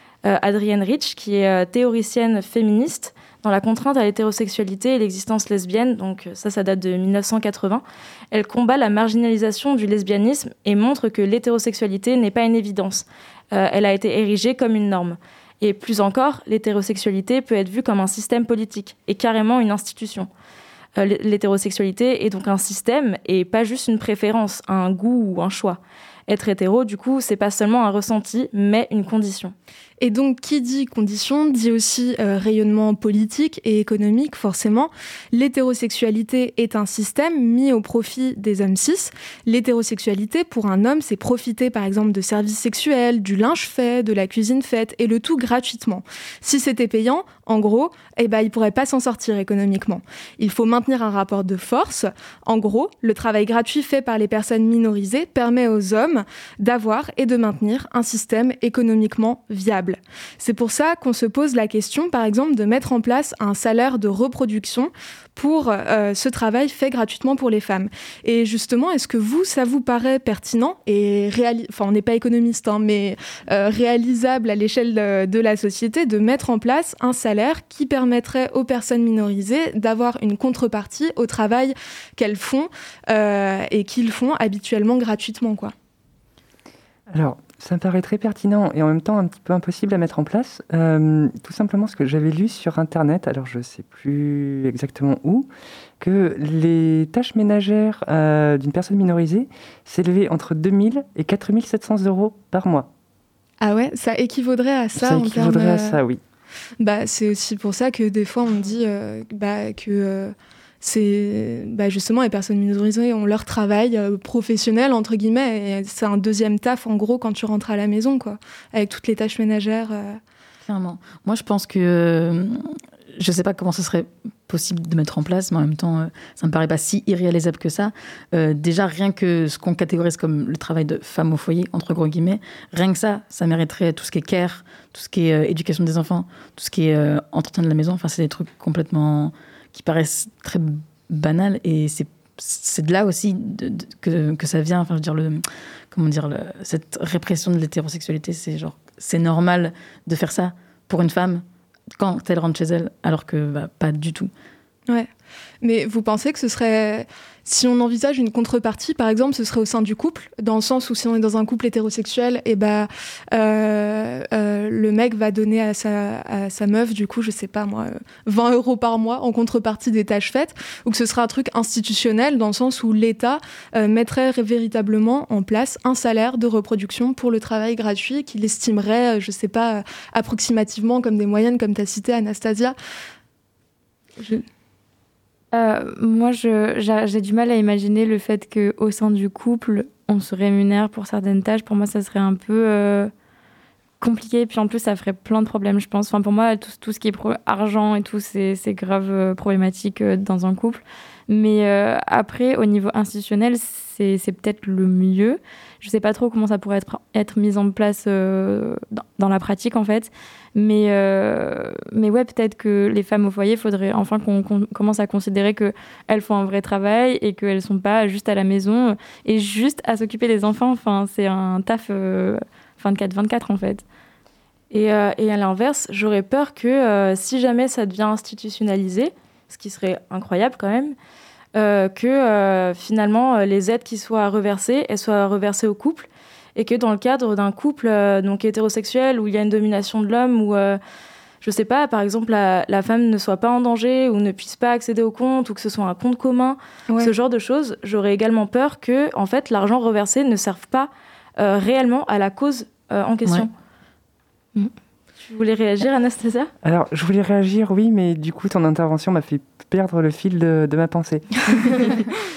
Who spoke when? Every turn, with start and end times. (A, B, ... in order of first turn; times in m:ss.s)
0:00.2-0:20.3 A
0:21.0-0:29.6 A
0:30.0-1:25.7 B
1:27.1-1:35.5 C
1:36.0-1:42.9 C
1:43.6-1:46.0 B
1:45.0-1:46.2 C
1:46.8-2:00.2 B
2:00.6-2:31.4 D
2:32.0-2:34.3 D
2:35.6-3:02.8 B
3:04.2-3:04.4 B
3:05.5-3:13.1 E
3:14.0-3:43.8 E
3:44.7-3:51.0 A
3:51.6-4:00.8 A
4:01.4-4:13.5 A
4:15.2-4:16.5 A
4:16.6-4:22.0 C